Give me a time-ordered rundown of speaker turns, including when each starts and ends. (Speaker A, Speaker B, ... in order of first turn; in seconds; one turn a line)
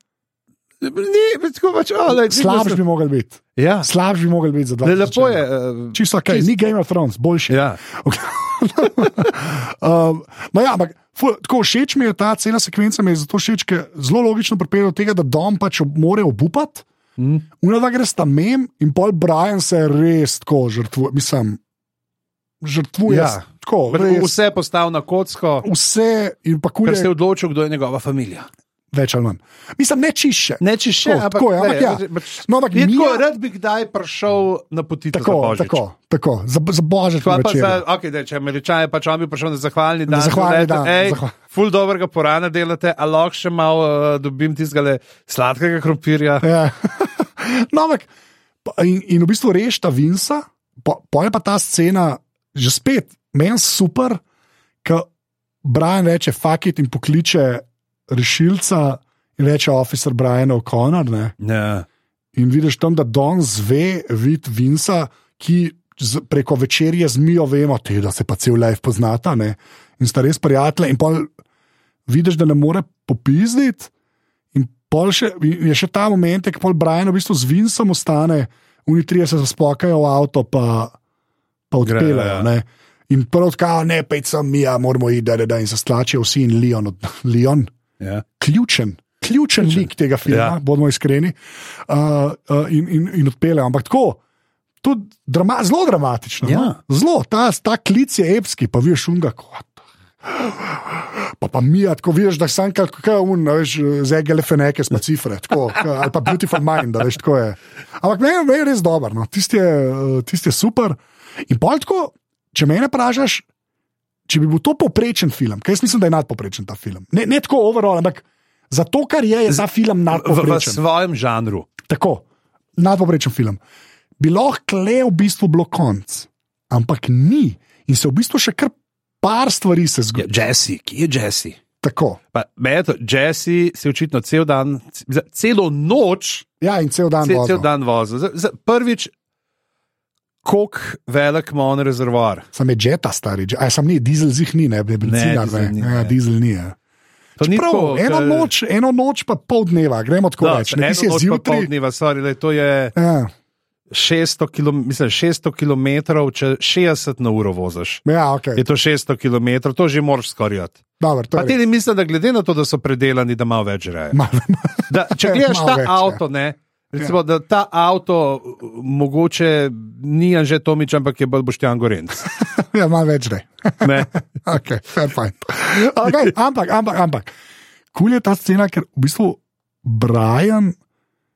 Speaker A: 0.8-2.8
Speaker B: 2.1-16.9
Speaker A: 3.6-3.9
Speaker A: 4.8-6.5
Speaker A: 7.5-7.8
Speaker A: 9.0-9.3
Speaker A: 17.2-17.4
Speaker B: 17.6-21.6
Speaker B: 22.6-24.4
Speaker A: 23.1-25.7
Speaker B: 25.6-27.1
Speaker A: 26.9-28.5
Speaker B: 28.9-33.2
Speaker A: 30.6-35.8
Speaker B: 35.1-37.8
Speaker A: 37.2-46.4
Speaker B: 40.1-41.4
Speaker B: 46.4-48.1
Speaker B: 48.6-54.2
Speaker B: 55.6-61.4
Speaker A: 61.4-61.9
Speaker B: 62.4-71.3
Speaker B: 72.1-73.9
Speaker B: 74.5-81.0
Speaker B: 81.7-87.7
Speaker A: 81.8-82.5
Speaker B: 88.4-91.4
Speaker A: 89.6-90.6
Speaker B: 91.9-94.2
Speaker B: 94.8-113.5
Speaker A: 96.5-96.8
Speaker B: 114.3-120.8
Speaker A: 119.5-121.7
Speaker B: 121.9-122.2
Speaker B: 122.8-123.6
Speaker B: 124.2-130.3
Speaker A: 130.2-131.6
Speaker B: 131.8-132.2
Speaker A: 132.3-136.4
Speaker B: 136.6-137.7
Speaker A: 137.2-139.1
Speaker A: 140.4-142.5
Speaker B: 142.5-146.8
Speaker A: 145.0-146.2
Speaker A: 147.4-148.5
Speaker B: 147.4-151.7
Speaker A: 150.4-152.9
Speaker B: 152.9-153.3
Speaker A: 153.9-158.0
Speaker B: 158.1-158.6
Speaker A: 158.6-160.8
Speaker B: 161.0-161.6
Speaker A: 161.3-164.2
Speaker B: 164.1-166.2
Speaker A: 164.9-172.3
Speaker B: 172.5-177.3
Speaker A: 173.8-174.1
Speaker A: 176.1-176.3
Speaker B: 177.9-180.8